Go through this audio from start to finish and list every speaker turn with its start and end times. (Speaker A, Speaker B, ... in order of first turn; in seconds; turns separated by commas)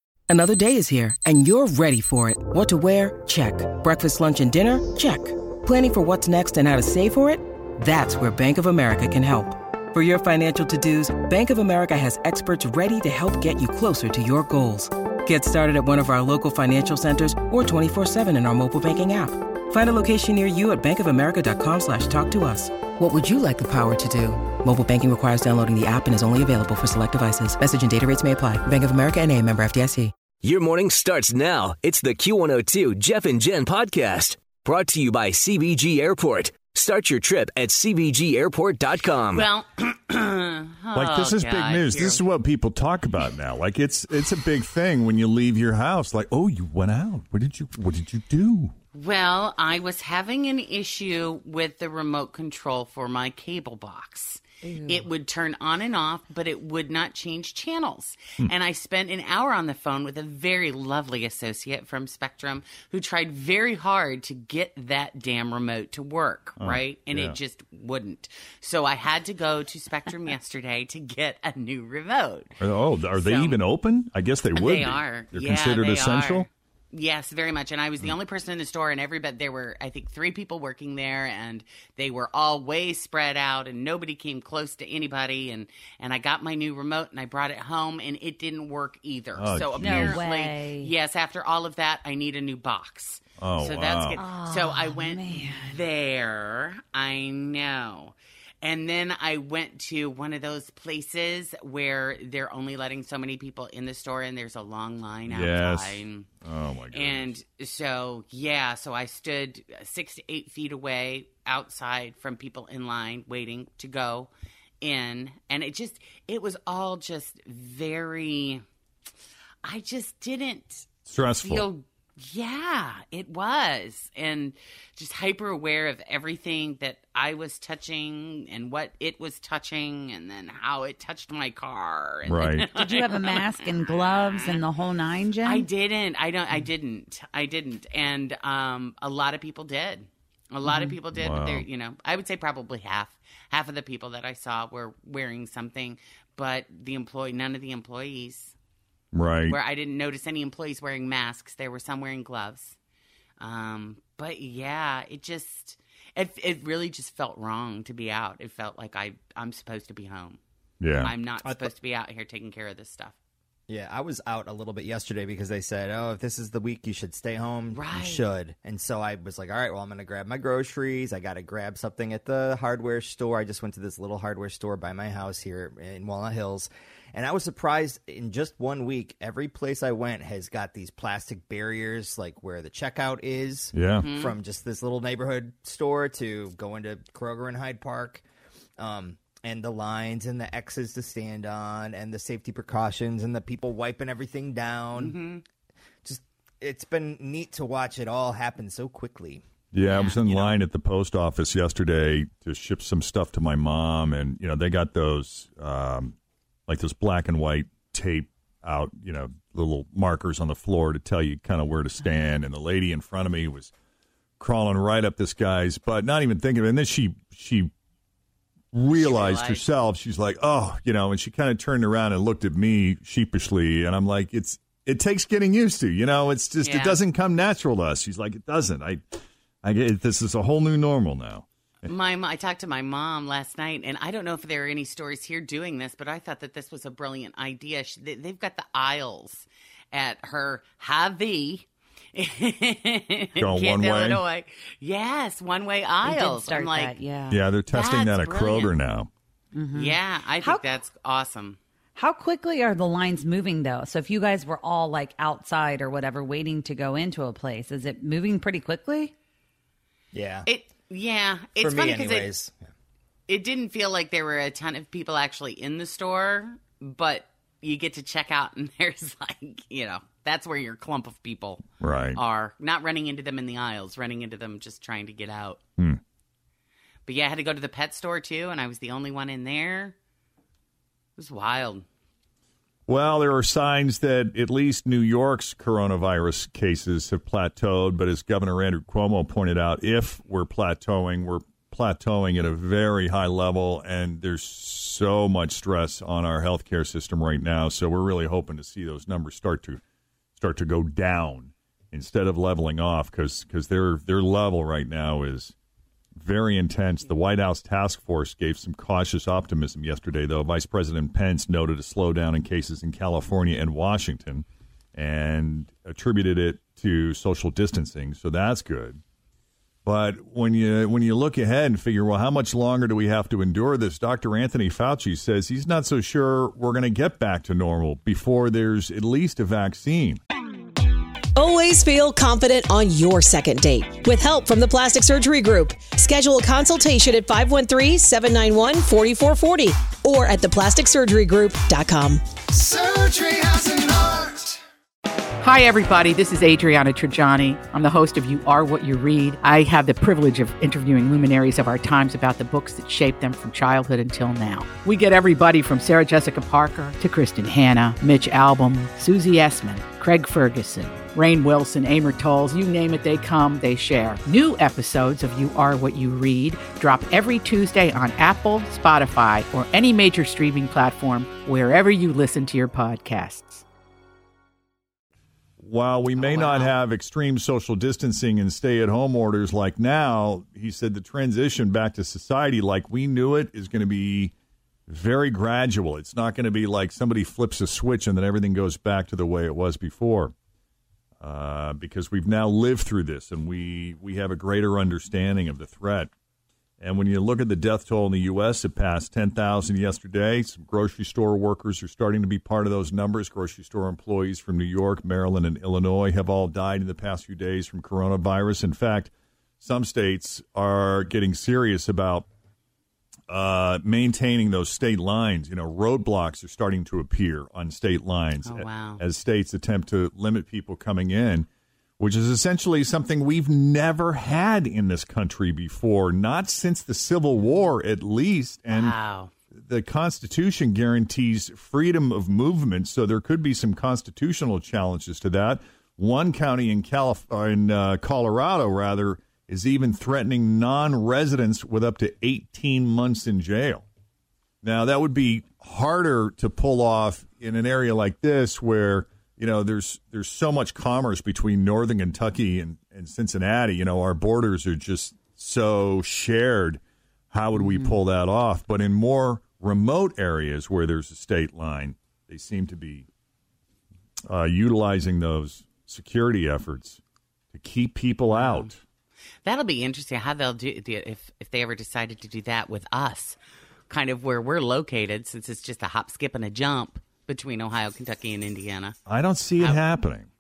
Speaker A: 0.3-30.1, Speaker B: 30.4-39.5, Speaker C: 39.3-42.2, Speaker D: 40.9-48.8, Speaker C: 48.9-72.5, Speaker E: 54.6-55.1, Speaker D: 66.6-67.4, Speaker D: 72.6-76.5, Speaker C: 73.2-73.6, Speaker C: 74.5-106.3, Speaker D: 89.4-90.2, Speaker E: 89.8-90.9, Speaker D: 93.4-94.2, Speaker E: 94.2-95.8, Speaker D: 105.3-107.3, Speaker C: 106.9-114.3, Speaker C: 114.8-118.6, Speaker C: 119.7-120.9, Speaker D: 121.1-121.7, Speaker C: 121.4-134.6, Speaker D: 132.3-132.7, Speaker E: 132.8-135.7, Speaker C: 135.4-148.6, Speaker E: 140.7-140.9, Speaker D: 141.1-141.7, Speaker D: 149.1-149.6, Speaker C: 149.5-152.8, Speaker C: 153.4-160.4, Speaker D: 160.8-161.1, Speaker C: 161.0-163.2, Speaker F: 161.4-161.7, Speaker F: 163.7-188.2, Speaker C: 167.7-168.2, Speaker D: 183.7-184.1, Speaker C: 184.0-184.4, Speaker F: 188.8-195.3, Speaker C: 194.9-195.4, Speaker F: 196.1-199.4, Speaker D: 199.7-206.2, Speaker C: 199.9-200.5, Speaker D: 206.7-213.7, Speaker D: 214.4-217.7, Speaker D: 218.7-229.0, Speaker C: 218.9-219.6, Speaker C: 226.6-227.0, Speaker D: 229.6-231.9, Speaker C: 231.8-247.0, Speaker D: 243.4-244.2, Speaker E: 246.0-247.4, Speaker D: 247.3-249.1, Speaker C: 247.7-248.7, Speaker E: 249.5-250.6, Speaker C: 249.7-251.6, Speaker E: 252.0-259.1, Speaker F: 260.1-260.5, Speaker C: 260.5-262.3, Speaker F: 261.6-262.6, Speaker C: 263.3-275.6, Speaker D: 271.8-272.2, Speaker C: 277.1-279.9, Speaker C: 281.2-281.9, Speaker D: 282.9-299.8, Speaker D: 300.4-305.6, Speaker D: 306.2-319.0, Speaker D: 319.9-330.2, Speaker G: 331.4-344.6, Speaker H: 345.4-373.6, Speaker D: 375.6-384.3, Speaker C: 376.1-376.7, Speaker D: 384.9-390.3, Speaker D: 391.2-396.1, Speaker D: 396.8-412.3, Speaker D: 413.3-421.5, Speaker C: 418.4-419.0, Speaker D: 422.0-428.9, Speaker C: 428.7-429.3, Speaker D: 429.5-443.9, Speaker D: 444.6-463.1, Speaker E: 457.6-458.0, Speaker D: 464.3-467.0, Speaker D: 467.5-468.8, Speaker C: 468.3-468.7, Speaker C: 469.4-473.4, Speaker C: 473.9-479.0, Speaker D: 479.1-480.3